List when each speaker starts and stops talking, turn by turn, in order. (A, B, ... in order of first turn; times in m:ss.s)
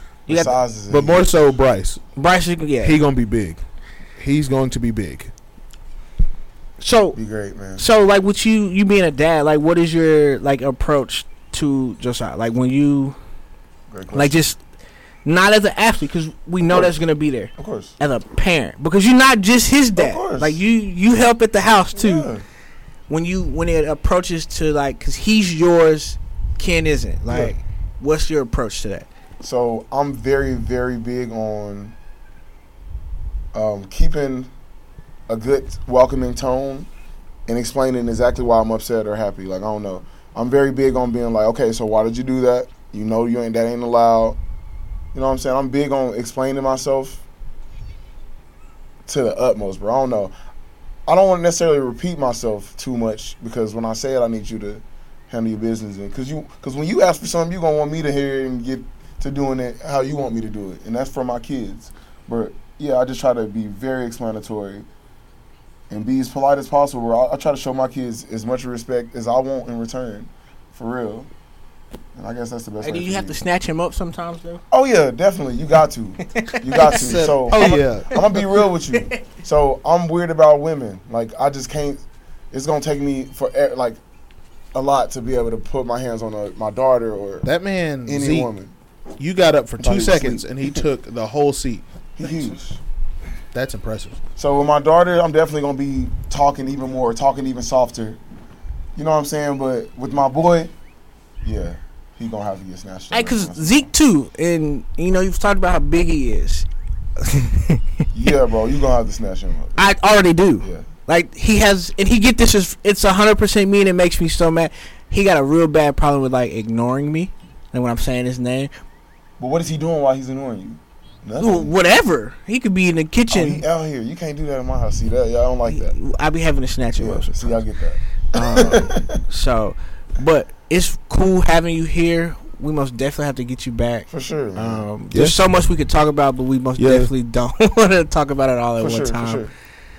0:00.3-0:00.5 A
0:00.3-0:01.3 B
0:00.9-0:02.0 C
0:02.2-0:03.0 A
0:02.8-0:03.6 C
0:04.2-0:05.3 C
0:06.8-0:07.2 A
0:07.1-0:07.8 B
0:07.8-0:13.2 A
0:13.9-0:14.4 B
0:14.1-0:14.6 A
0:15.2-0:22.3 A
0:16.7-0:16.9 B
0:17.6-0:17.9 B
0:20.0-0:20.6 B
0:22.0-0:22.4 B
0:23.1-0:29.1 A
0:29.4-0:31.9 B
0:33.5-0:34.5 B
0:35.3-0:36.9 B
0:37.5-0:44.4 B
0:45.1-0:47.2 B
0:49.0-0:50.3 B
0:51.1-1:04.8 B
1:05.9-1:11.3 B
1:12.1-1:13.4 B
1:12.8-1:14.6 A
1:14.7-1:24.0 B
1:16.3-1:18.4 A
1:16.8-1:18.2 C
1:18.9-1:19.2 A
1:24.7-1:27.5 B
1:27.4-1:28.5 C
1:28.1-1:28.7 B
1:29.2-1:32.3 C
1:29.8-1:30.8 B
1:32.2-1:32.8 B
1:33.5-1:34.2 C
1:34.4-1:38.2 B
1:39.0-1:40.7 B
1:41.4-1:43.9 B
1:43.1-1:46.7 A
1:47.2-1:48.0 A
1:48.1-1:49.9 B
1:49.8-1:58.7 A
1:59.4-2:01.7 B
2:01.4-2:03.6 A
2:03.3-2:05.9 B
2:05.7-2:07.6 A
2:07.0-2:09.2 B
2:08.3-2:19.5 A
2:14.1-2:14.9 B
2:15.1-2:15.5 C
2:16.8-2:17.1 C
2:18.8-2:19.5 B